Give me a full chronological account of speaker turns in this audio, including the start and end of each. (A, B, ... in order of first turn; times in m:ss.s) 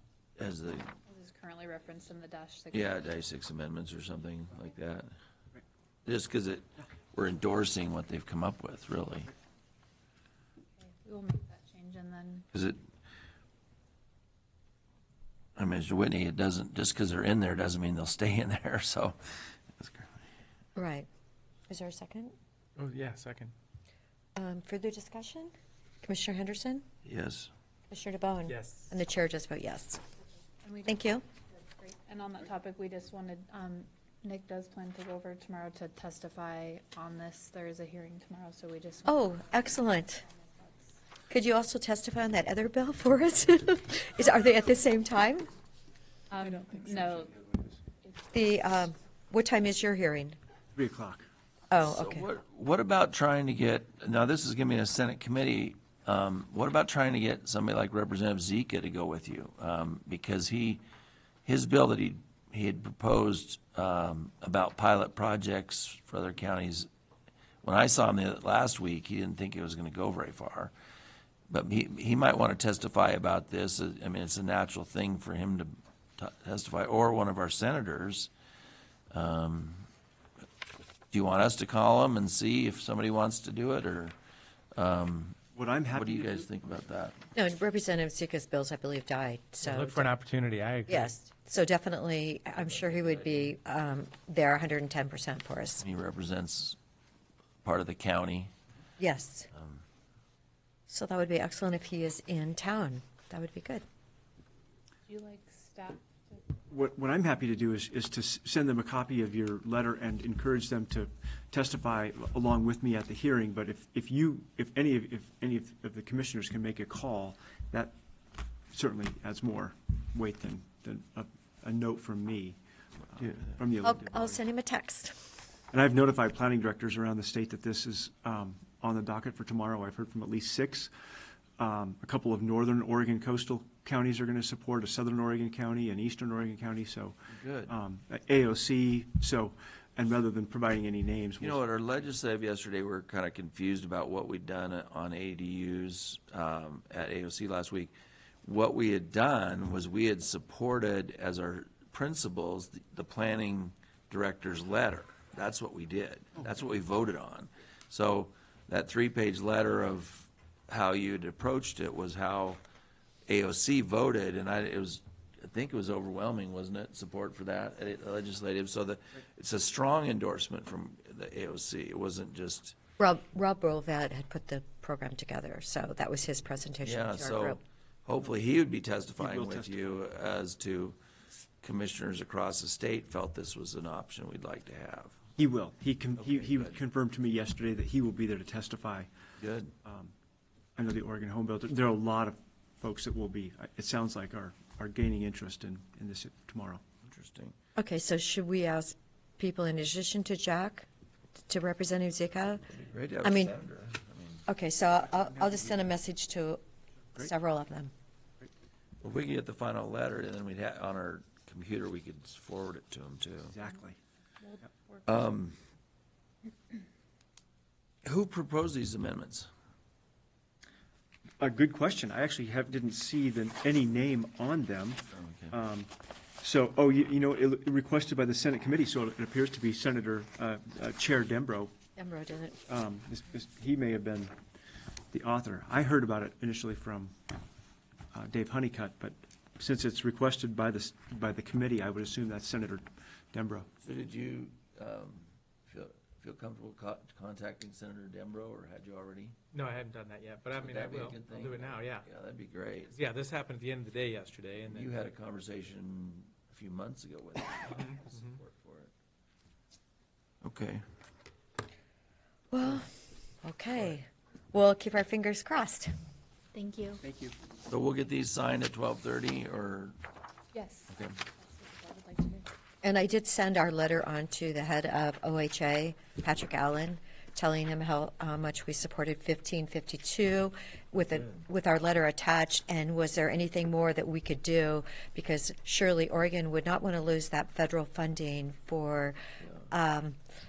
0:00.4-0:00.9 A
0:01.1-0:03.1 B
0:02.7-0:05.1 A
0:06.0-0:09.3 A
0:10.8-0:12.4 B
0:12.5-0:12.8 A
0:15.6-0:20.2 A
0:20.8-0:21.1 C
0:21.7-0:22.3 C
0:22.8-0:23.5 D
0:24.3-0:25.5 C
0:26.0-0:26.8 C
0:27.0-0:27.5 A
0:27.9-0:30.0 C
0:28.5-0:29.0 D
0:30.6-0:41.0 B
0:30.8-0:31.2 C
0:39.0-0:40.2 C
0:41.3-0:45.5 C
0:46.3-0:47.3 B
0:46.4-0:47.6 E
0:48.3-0:50.4 C
0:50.7-0:51.3 E
0:51.7-0:52.2 C
0:51.8-1:00.8 A
1:01.4-1:06.9 A
1:07.6-1:10.7 A
1:11.5-1:18.3 A
1:19.1-1:19.8 A
1:21.1-1:24.1 A
1:24.7-1:25.4 A
1:25.5-1:26.5 E
1:25.9-1:27.1 A
1:27.3-1:30.2 C
1:29.6-1:31.2 D
1:30.9-1:35.8 C
1:32.5-1:33.5 A
1:35.8-1:36.8 A
1:37.6-1:38.5 A
1:39.0-1:39.5 C
1:39.5-1:39.8 A
1:40.9-1:43.8 C
1:45.1-1:46.5 B
1:46.7-1:57.9 E
1:58.7-2:02.6 E
2:03.1-2:04.4 E
2:03.8-2:05.3 C
2:05.7-2:10.9 E
2:11.6-2:21.6 E
2:17.3-2:17.7 A
2:21.4-2:27.9 A
2:28.4-2:42.6 A
2:43.3-2:52.8 A
2:53.0-2:57.6 C
2:56.8-3:01.0 A
2:59.2-2:59.8 E
3:01.6-3:05.2 A
3:05.4-3:09.1 E
3:06.2-3:06.8 A
3:09.4-3:09.7 A
3:09.8-3:10.1 E
3:10.8-3:16.8 E
3:17.0-3:17.5 A
3:17.8-3:20.9 C
3:21.5-3:23.5 C
3:22.8-3:24.4 A
3:24.4-3:26.6 C
3:25.2-3:25.8 E
3:27.2-3:27.9 C
3:29.0-3:33.6 A
3:33.4-3:34.0 E
3:34.4-3:35.2 B
3:35.0-3:35.5 A
3:38.0-3:39.5 A
3:41.4-3:51.7 E
3:45.1-3:45.5 A
3:52.0-3:52.6 C
3:52.7-3:54.3 E
3:55.1-3:57.1 E
3:58.1-4:03.7 E
4:03.8-4:09.4 A
4:09.5-4:12.1 D
4:10.5-4:12.9 A
4:12.9-4:15.0 D
4:14.6-4:18.9 A
4:17.6-4:18.4 D
4:20.4-4:20.8 A
4:22.5-4:22.9 C
4:23.4-4:25.9 C
4:26.5-4:27.0 B
4:27.0-4:27.4 E
4:27.7-4:30.0 A
4:30.5-4:32.5 B
4:30.9-4:31.2 A
4:32.8-4:49.2 C
4:41.1-4:41.4 A
4:49.7-4:50.2 C